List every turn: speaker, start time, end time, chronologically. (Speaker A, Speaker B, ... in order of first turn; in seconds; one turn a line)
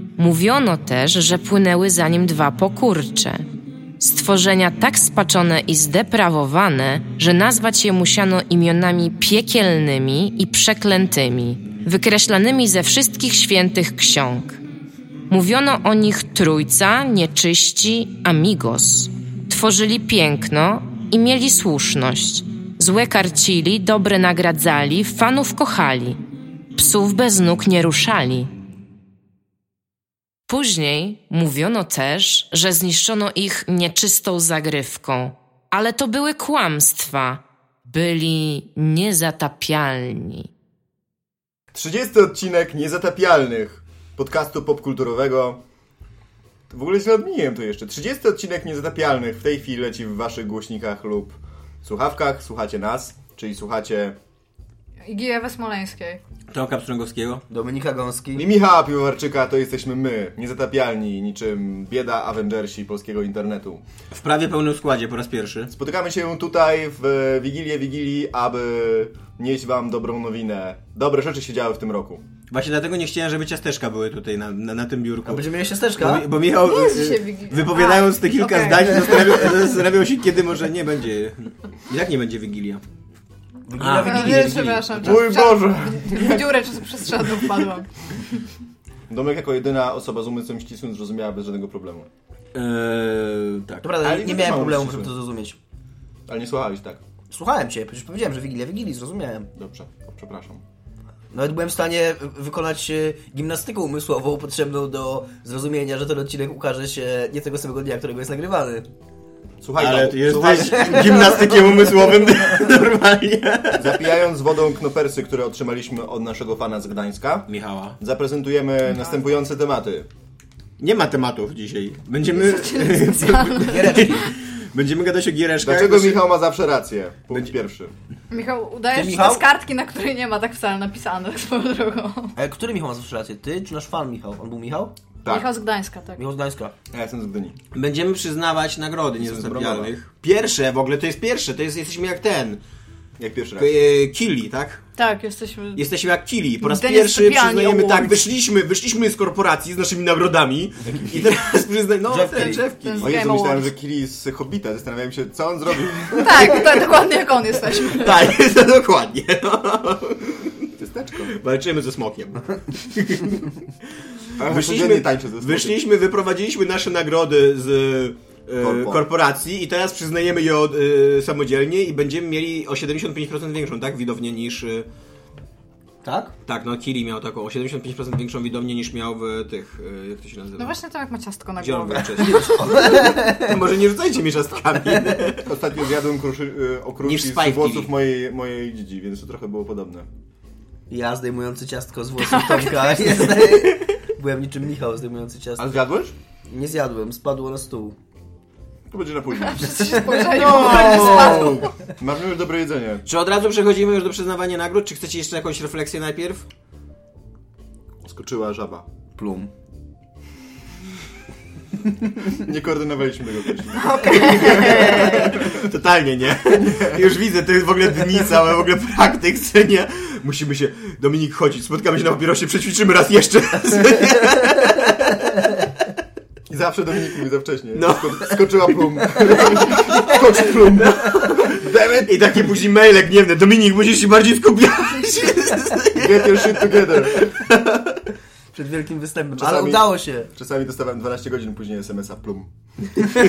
Speaker A: 0.2-3.4
Speaker A: 4.0-14.6
Speaker A: 15.3-26.2
Speaker A: 26.8-28.5
Speaker A: 30.5-40.5
Speaker B: 41.7-45.6
Speaker B: 46.7-54.2
Speaker C: 55.1-56.2
Speaker D: 56.5-57.4
Speaker E: 57.5-58.5
Speaker B: 58.4-63.8
Speaker D: 64.1-65.7
Speaker B: 65.7-72.2
Speaker D: 72.5-82.8
Speaker E: 75.3-76.3
Speaker C: 76.5-79.5
Speaker E: 83.7-84.9
Speaker D: 83.8-85.2
Speaker C: 84.0-87.9
Speaker B: 85.0-87.7
Speaker B: 89.1-92.1
Speaker D: 92.5-93.9
Speaker E: 93.8-95.6
Speaker B: 94.0-95.1
Speaker B: 96.3-97.0
Speaker E: 97.3-99.5
Speaker B: 99.5-100.6
Speaker E: 101.3-108.9
Speaker B: 109.6-111.4
Speaker D: 109.8-114.0
Speaker E: 110.7-112.1
Speaker B: 113.8-120.1
Speaker D: 117.5-118.0
Speaker D: 120.8-126.3
Speaker C: 122.3-124.2
Speaker E: 123.6-124.3
Speaker B: 125.6-127.9
Speaker C: 128.3-132.3
Speaker E: 128.9-129.5
Speaker E: 132.4-135.0
Speaker B: 135.2-135.5
Speaker C: 135.3-136.2
Speaker E: 136.2-136.7
Speaker B: 136.9-137.6
Speaker D: 137.7-142.6
Speaker B: 139.2-139.9
Speaker B: 143.2-143.7
Speaker D: 143.6-144.8
Speaker C: 145.0-145.8
Speaker D: 145.8-153.1
Speaker C: 146.6-148.3
Speaker E: 152.1-152.7
Speaker C: 152.8-153.7
Speaker B: 153.0-156.8
Speaker C: 156.2-158.3
Speaker D: 157.9-160.7
Speaker B: 160.8-161.3
Speaker D: 161.2-163.5
Speaker D: 164.4-174.9
Speaker B: 164.4-165.8
Speaker B: 168.6-169.1
Speaker E: 176.0-176.3
Speaker D: 176.4-180.8
Speaker C: 180.6-182.5
Speaker D: 181.6-185.4
Speaker E: 182.2-183.6
Speaker E: 184.8-185.3
Speaker B: 185.4-190.1
Speaker D: 187.1-187.9
Speaker E: 190.9-195.8
Speaker C: 192.2-193.1
Speaker D: 193.0-193.7
Speaker B: 195.6-196.2
Speaker E: 196.5-197.9
Speaker B: 198.9-203.0
Speaker C: 199.3-201.7
Speaker E: 199.8-200.5
Speaker D: 200.5-201.6
Speaker D: 203.1-206.4
Speaker B: 208.0-208.9
Speaker E: 209.2-209.5
Speaker B: 212.3-215.6
Speaker C: 213.8-215.4
Speaker D: 214.1-225.5
Speaker B: 216.5-217.0
Speaker B: 226.5-232.5
Speaker D: 227.7-228.5
Speaker E: 229.7-230.2
Speaker D: 231.0-237.5
Speaker B: 236.0-237.4
Speaker E: 238.5-240.3
Speaker B: 239.4-242.5